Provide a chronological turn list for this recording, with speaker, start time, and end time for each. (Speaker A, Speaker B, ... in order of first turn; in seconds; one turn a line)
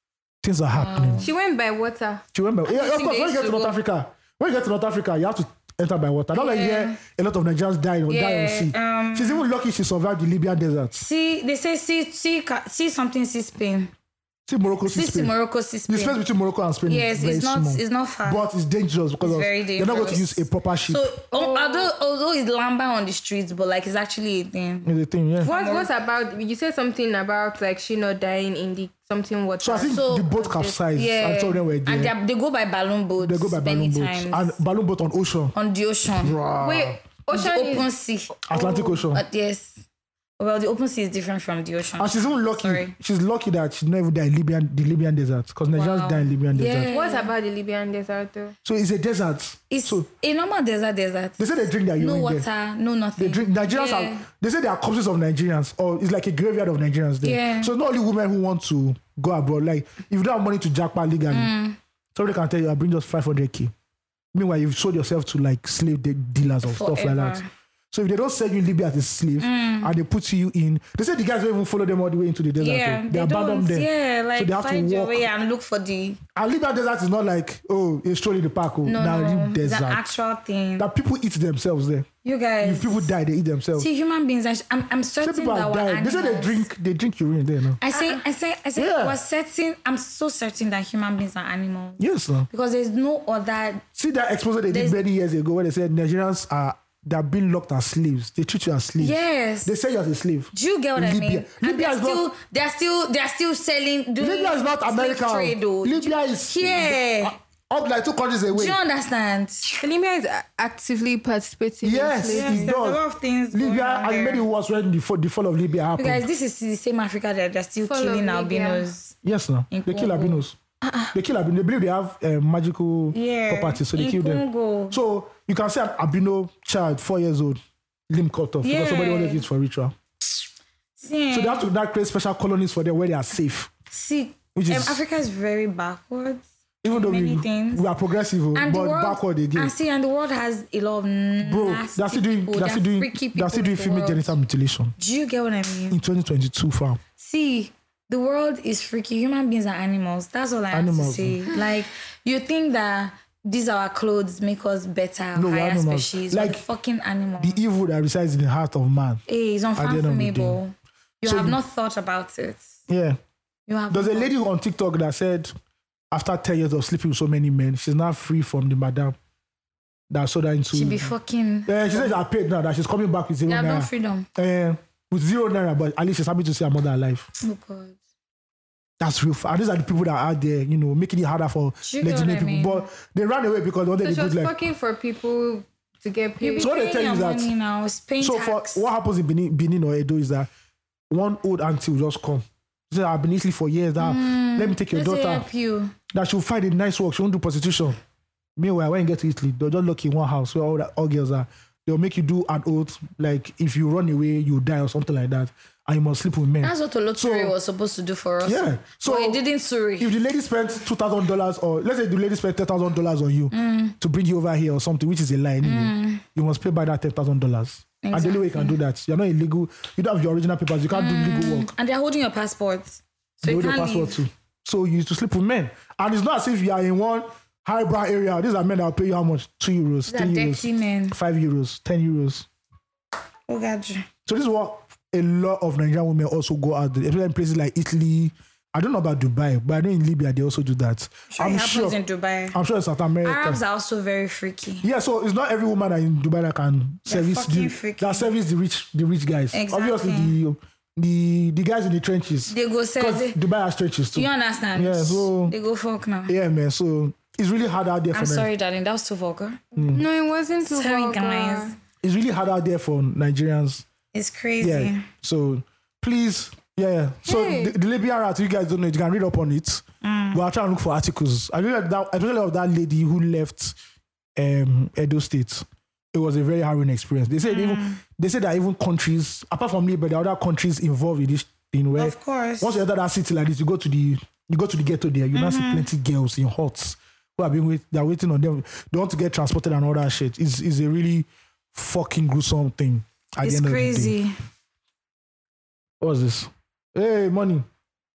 Speaker A: 0.4-1.2
Speaker B: 0.7-1.3
Speaker C: 1.2-2.2
Speaker A: 2.3-11.0
Speaker B: 2.7-3.8
Speaker B: 6.3-7.0
Speaker B: 8.1-9.4
Speaker B: 10.9-13.9
Speaker A: 14.5-15.3
Speaker B: 14.8-16.2
Speaker A: 15.9-21.0
Speaker B: 16.9-18.4
Speaker B: 19.2-25.9
Speaker C: 21.3-21.9
Speaker A: 24.8-25.5
Speaker C: 25.4-30.8
Speaker A: 29.6-32.1
Speaker B: 29.9-30.3
Speaker B: 30.9-34.6
Speaker A: 33.2-35.5
Speaker B: 35.5-36.4
Speaker A: 36.2-37.0
Speaker C: 36.6-37.9
Speaker B: 37.3-39.8
Speaker A: 38.5-39.2
Speaker B: 40.4-42.9
Speaker A: 42.0-46.9
Speaker B: 45.7-47.3
Speaker C: 46.9-48.5
Speaker A: 48.6-50.1
Speaker B: 49.7-54.2
Speaker A: 51.4-52.5
Speaker A: 53.2-61.5
Speaker B: 57.2-57.7
Speaker B: 61.3-61.8
Speaker A: 62.1-63.7
Speaker A: 64.3-75.3
Speaker B: 66.6-67.5
Speaker B: 69.4-69.9
Speaker B: 72.6-76.2
Speaker A: 76.3-80.0
Speaker B: 78.8-80.9
Speaker A: 80.8-82.1
Speaker B: 82.2-83.1
Speaker A: 82.6-83.9
Speaker B: 83.8-86.6
Speaker A: 85.2-87.8
Speaker B: 87.8-93.8
Speaker A: 88.8-89.2
Speaker A: 92.0-92.5
Speaker A: 94.0-102.2
Speaker B: 94.7-95.0
Speaker B: 99.0-99.7
Speaker B: 100.5-107.3
Speaker A: 104.2-108.8
Speaker B: 108.5-109.8
Speaker C: 109.7-112.7
Speaker A: 111.8-113.0
Speaker B: 112.3-114.4
Speaker A: 113.5-116.2
Speaker B: 116.0-119.1
Speaker C: 117.8-118.9
Speaker A: 119.2-120.5
Speaker B: 119.7-120.4
Speaker C: 120.8-121.1
Speaker A: 121.1-127.6
Speaker B: 123.1-125.0
Speaker A: 128.1-129.9
Speaker B: 128.6-129.4
Speaker B: 131.0-131.7
Speaker A: 131.3-133.7
Speaker B: 133.9-137.9
Speaker A: 134.5-135.0
Speaker A: 136.8-139.7
Speaker B: 138.5-144.3
Speaker A: 141.4-144.9
Speaker B: 145.0-146.0
Speaker A: 145.9-147.0
Speaker B: 147.2-157.6
Speaker A: 150.7-151.4
Speaker A: 155.3-156.6
Speaker A: 157.4-159.2
Speaker B: 159.3-162.7
Speaker A: 159.8-160.6
Speaker A: 161.2-161.6
Speaker A: 162.9-163.2
Speaker B: 163.7-164.3
Speaker A: 163.9-165.5
Speaker A: 166.1-169.2
Speaker A: 170.1-171.1
Speaker B: 170.7-172.1
Speaker A: 171.7-177.3
Speaker B: 173.5-174.3
Speaker B: 177.4-178.0
Speaker A: 179.0-184.5
Speaker B: 181.8-182.8
Speaker C: 184.0-186.7
Speaker B: 186.4-188.9
Speaker A: 186.6-187.5
Speaker A: 188.2-190.5
Speaker A: 191.1-195.5
Speaker B: 194.0-195.9
Speaker A: 196.1-198.0
Speaker A: 198.6-207.5
Speaker B: 206.6-210.1
Speaker A: 208.4-209.4
Speaker A: 210.0-221.7
Speaker B: 213.5-213.9
Speaker B: 215.6-216.2
Speaker B: 218.0-218.7
Speaker B: 220.9-224.2
Speaker A: 223.4-232.5
Speaker B: 230.1-231.2
Speaker B: 233.5-234.1
Speaker A: 234.2-242.0
Speaker B: 241.3-242.6
Speaker A: 242.5-243.6
Speaker B: 243.2-244.9
Speaker A: 244.8-255.5
Speaker B: 247.1-248.3
Speaker B: 249.5-250.3
Speaker B: 252.5-253.4
Speaker B: 254.1-256.3
Speaker A: 256.3-258.5
Speaker B: 258.1-259.6
Speaker A: 259.8-260.0
Speaker C: 259.8-261.7
Speaker B: 260.6-261.7
Speaker A: 262.0-263.8
Speaker B: 264.1-265.1
Speaker A: 264.6-273.8
Speaker C: 267.2-267.7
Speaker B: 270.0-270.4
Speaker A: 274.4-294.1
Speaker B: 277.5-278.0
Speaker B: 281.9-282.7
Speaker B: 285.3-285.9
Speaker B: 293.4-294.4
Speaker A: 296.0-297.6